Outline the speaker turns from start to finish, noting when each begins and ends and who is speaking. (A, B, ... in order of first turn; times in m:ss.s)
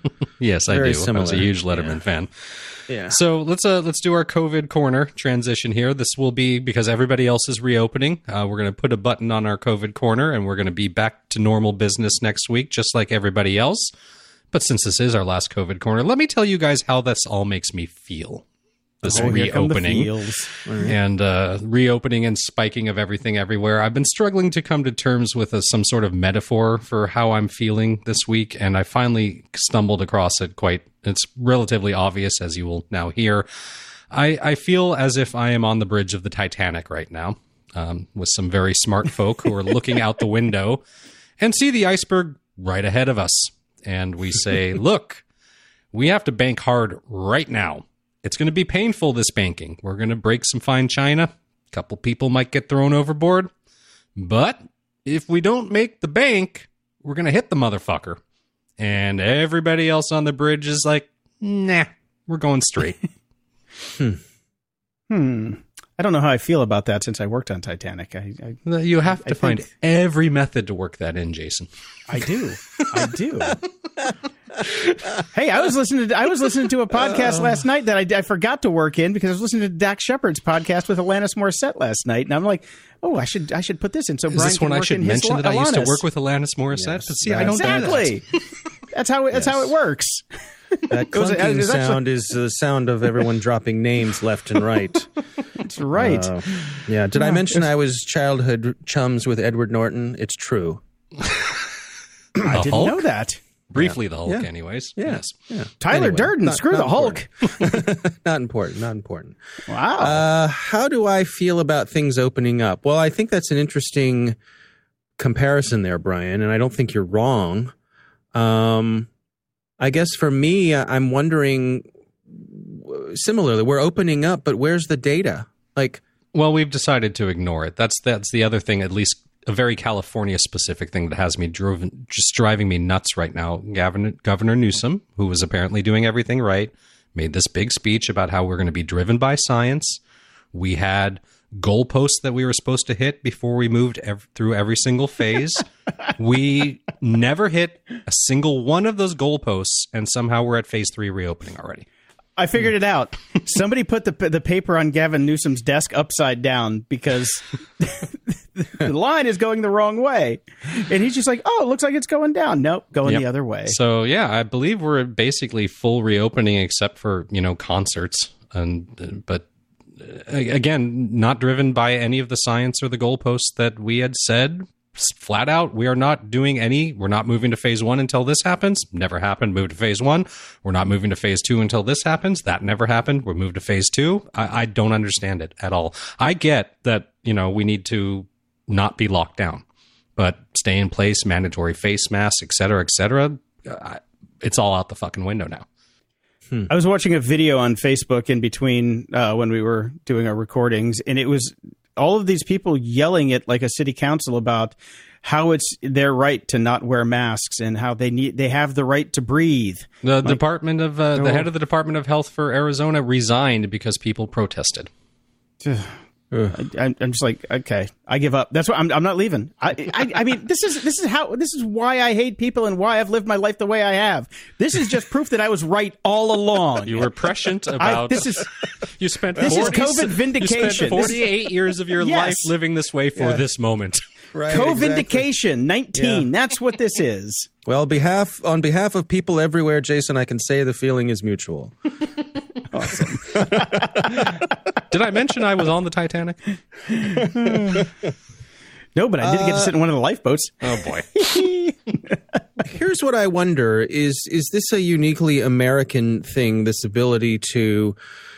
0:00.4-0:02.5 A
0:00.7-0:01.9 B
0:02.9-0:03.2 B
0:03.1-0:13.9 A
0:14.5-0:18.4 A
0:19.0-0:20.1 A
0:19.0-0:20.1 B
0:19.0-0:20.5 C
0:20.6-0:21.0 B
0:20.8-0:33.4 A
0:34.1-0:40.8 A
0:41.4-0:45.2 A
0:45.9-0:53.5 A
0:54.2-0:58.2 A
0:58.8-1:03.0 A
1:05.1-1:08.6 C
1:08.6-1:11.7 A
1:09.2-1:09.7 C
1:12.1-1:13.6 C
1:15.3-1:26.0 C
1:17.0-1:17.5 B
1:24.3-1:28.1 A
1:26.8-1:28.1 B
1:27.3-1:28.2 C
1:28.9-1:32.0 C
1:29.3-1:29.7 B
1:30.9-1:35.1 B
1:35.6-1:37.6 C
1:35.9-1:40.8 B
1:42.4-1:43.4 C
1:42.4-1:43.0 A
1:43.7-1:45.3 A
1:43.8-1:49.4 B
1:45.8-1:47.3 C
1:49.7-1:50.2 C
1:50.0-1:54.4 B
1:55.2-1:57.7 B
1:58.3-1:59.1 B
1:59.8-2:06.0 B
2:06.3-2:20.0 A
2:20.5-2:25.6 A
2:26.2-2:31.8 A
2:32.4-2:43.8 C
2:43.0-2:49.4 A
2:50.0-3:09.6 A
3:10.2-3:15.6 A
3:16.7-3:30.4 C
3:30.0-3:34.9 A
3:35.6-3:35.9 C
3:36.5-3:47.1 C
3:46.8-3:54.0 A
3:47.8-3:48.5 C
3:49.4-3:49.8 B
3:49.4-3:51.2 C
3:50.6-3:51.2 B
3:52.0-3:52.5 C
3:53.2-3:53.4 B
3:54.3-3:55.2 B
3:54.5-3:57.5 C
3:55.9-3:56.3 B
3:57.6-4:01.8 B
4:02.7-4:03.8 C
4:02.9-4:04.2 B
4:04.1-4:04.4 A
4:04.9-4:06.4 A
4:06.9-4:07.9 C
4:09.0-4:12.2 C
4:09.2-4:09.7 B
4:10.6-4:11.2 A
4:12.6-4:18.0 B